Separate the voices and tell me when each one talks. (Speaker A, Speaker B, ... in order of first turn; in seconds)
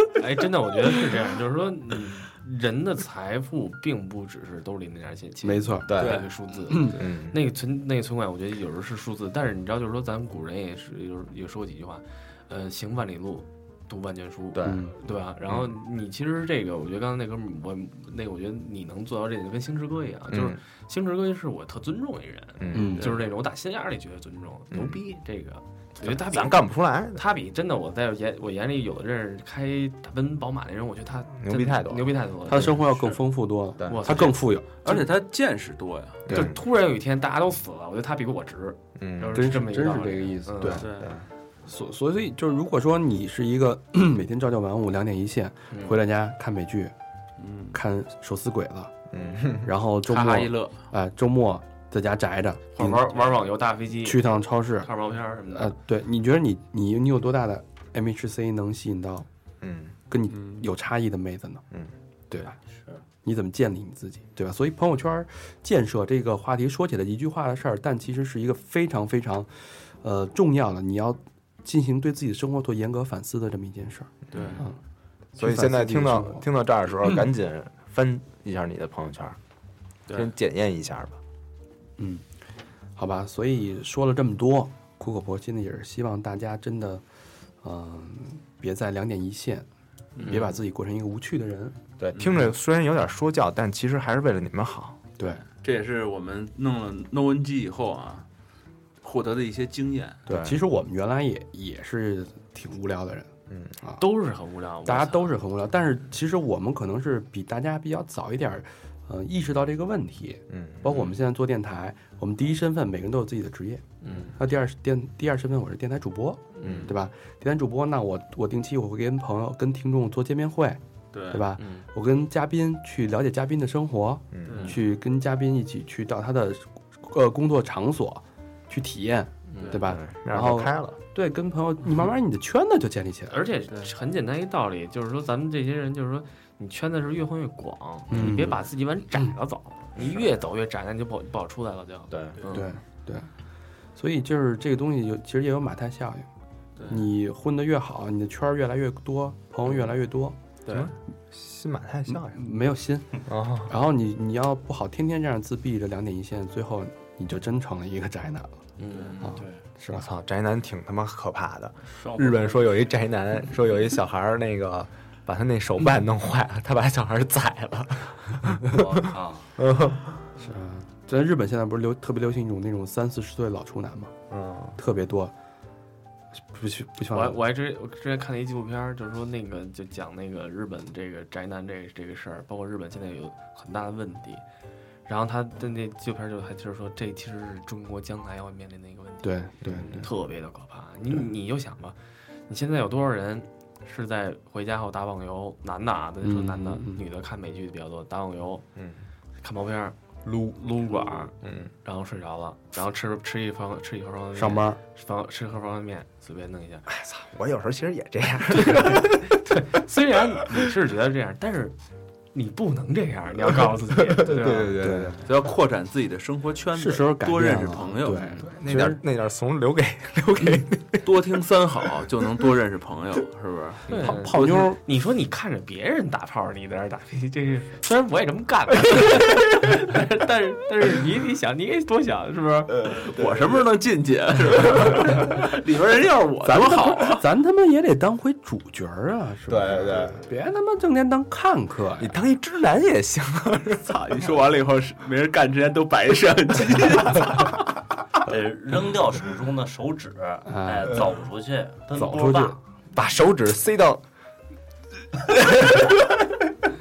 Speaker A: 0.1-33.2, 33.9-35.0, 36.3-40.9, 45.7-46.0, 52.7-55.8, 90.2-90.5, 104.0-105.4, 114.0-114.3, 116.5-116.9, 121.6-121.8, 129.5-129.8, 133.3-142.7, 158.8-159.3, 177.1-184.4, 185.1-192.0, 192.5-198.6, 199.4-206.9, 208.6-211.8, 212.3-214.8, 223.9-232.8
Speaker B: 5.4-5.9, 6.7-7.0, 14.6-14.9, 22.7-23.1, 32.5-35.0, 36.3-36.5, 39.3-40.9, 41.6-46.9, 47.7-48.9, 49.6-53.0, 54.0-54.9, 55.5-59.3, 60.1-61.6, 62.3-62.6, 63.2-69.5, 70.0-74.8, 75.3-76.4, 82.0-82.2, 83.0-87.0, 87.6-89.7, 90.3-91.8, 100.3-103.3, 104.8-113.8, 114.3-133.4, 138.1-138.6, 142.5-143.3, 143.9-146.2, 146.9-150.4, 152.3-158.6, 159.2-160.1, 170.4-174.1, 174.8-175.3, 176.5-177.4, 189.2-190.1, 196.2-197.0, 204.3-204.8, 214.7-215.2, 216.7-219.0, 224.0-224.8, 236.4-242.1, 250.5-251.0, 251.9-252.6
Speaker C: 5.9-7.4, 14.5-14.8, 20.3-20.6, 22.6-23.0, 24.7-25.0, 26.0-27.2, 31.4-32.7, 33.8-34.1, 36.3-36.5, 39.0-39.4, 40.6-41.2, 49.1-49.7, 59.6-59.9, 74.3-74.6, 75.4-79.4, 80.1-81.2, 92.0-95.0, 100.3-100.6, 103.5-103.7, 110.5-111.0, 116.6-116.9, 124.3-124.6, 129.7-131.0, 142.1-142.4, 150.7-152.4, 153.2-153.7, 159.9-169.1, 169.6-170.2, 174.3-174.8, 198.8-199.0, 200.2-200.6, 201.4-201.7, 206.9-209.4, 210.4-210.7, 213.9-215.2, 218.4-221.1, 223.9-224.3, 239.5-240.2, 242.0-243.9, 252.9-254.0, 255.5-255.8
Speaker D: 6.0-6.2, 34.8-36.2, 40.8-41.1, 47.4-47.8, 50.0-50.7, 60.3-60.6, 74.3-74.7, 90.2-90.5, 92.1-92.5, 95.5-98.2, 99.0-100.2, 121.1-121.4, 124.5-124.8, 142.4-142.7, 146.8-147.1, 215.2-218.5, 221.0-223.9, 232.9-237.2, 243.8-247.6
Speaker E: 62.7-63.0, 159.0-159.6, 161.9-162.7, 168.7-169.5, 248.2-252.6